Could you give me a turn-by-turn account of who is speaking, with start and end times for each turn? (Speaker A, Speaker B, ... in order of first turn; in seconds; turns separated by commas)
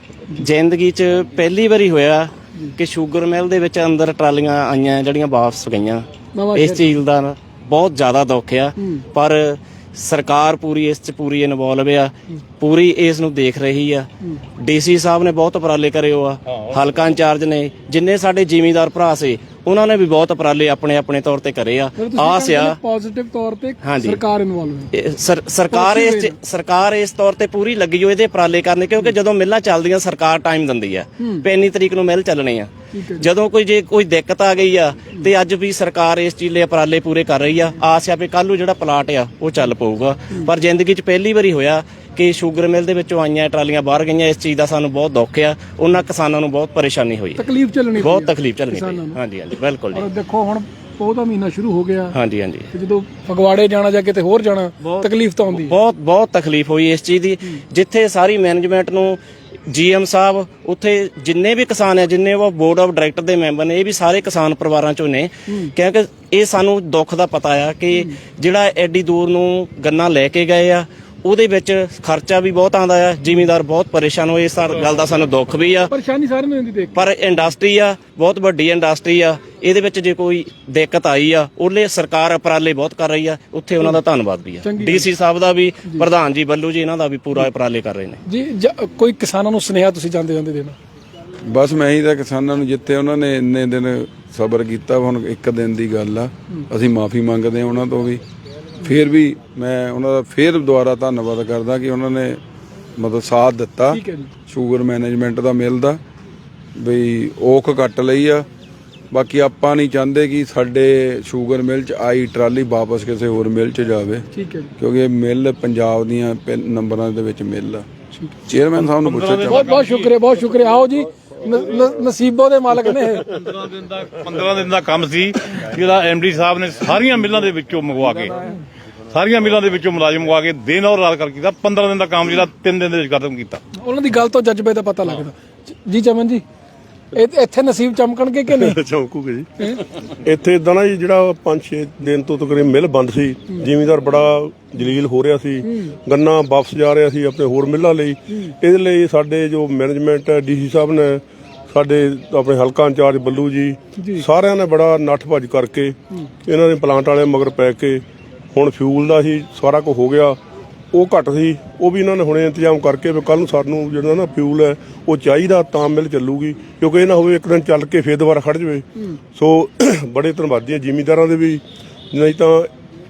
Speaker A: 0.4-14.1, Speaker B: 6.3-6.9, Speaker B: 8.8-9.1, Speaker A: 14.6-22.8, Speaker B: 22.0-24.9, Speaker A: 23.8-24.2, Speaker A: 24.9-47.4, Speaker B: 25.7-26.3, Speaker B: 31.2-31.4, Speaker B: 32.9-33.3, Speaker B: 47.4-49.2, Speaker A: 48.0-50.1, Speaker B: 49.9-52.2, Speaker A: 52.1-52.7, Speaker B: 52.7-55.8, Speaker A: 54.8-75.9, Speaker B: 65.5-65.7, Speaker B: 67.9-68.2, Speaker B: 75.9-77.1, Speaker A: 76.9-88.2, Speaker B: 84.6-85.1, Speaker B: 88.2-90.7, Speaker C: 91.5-98.2, Speaker C: 98.8-102.4, Speaker C: 103.0-106.0, Speaker B: 103.9-104.3, Speaker C: 106.8-108.5, Speaker C: 109.1-114.3, Speaker B: 114.3-114.7, Speaker C: 114.8-117.8, Speaker B: 118.1-118.4, Speaker C: 118.5-119.6, Speaker D: 119.0-120.1, Speaker B: 119.5-123.3, Speaker D: 123.3-128.5, Speaker D: 129.1-133.6, Speaker B: 133.8-136.4, Speaker B: 137.1-138.8, Speaker E: 138.5-158.0, Speaker B: 145.6-146.0, Speaker B: 153.9-154.2, Speaker E: 158.5-160.4, Speaker E: 160.9-172.7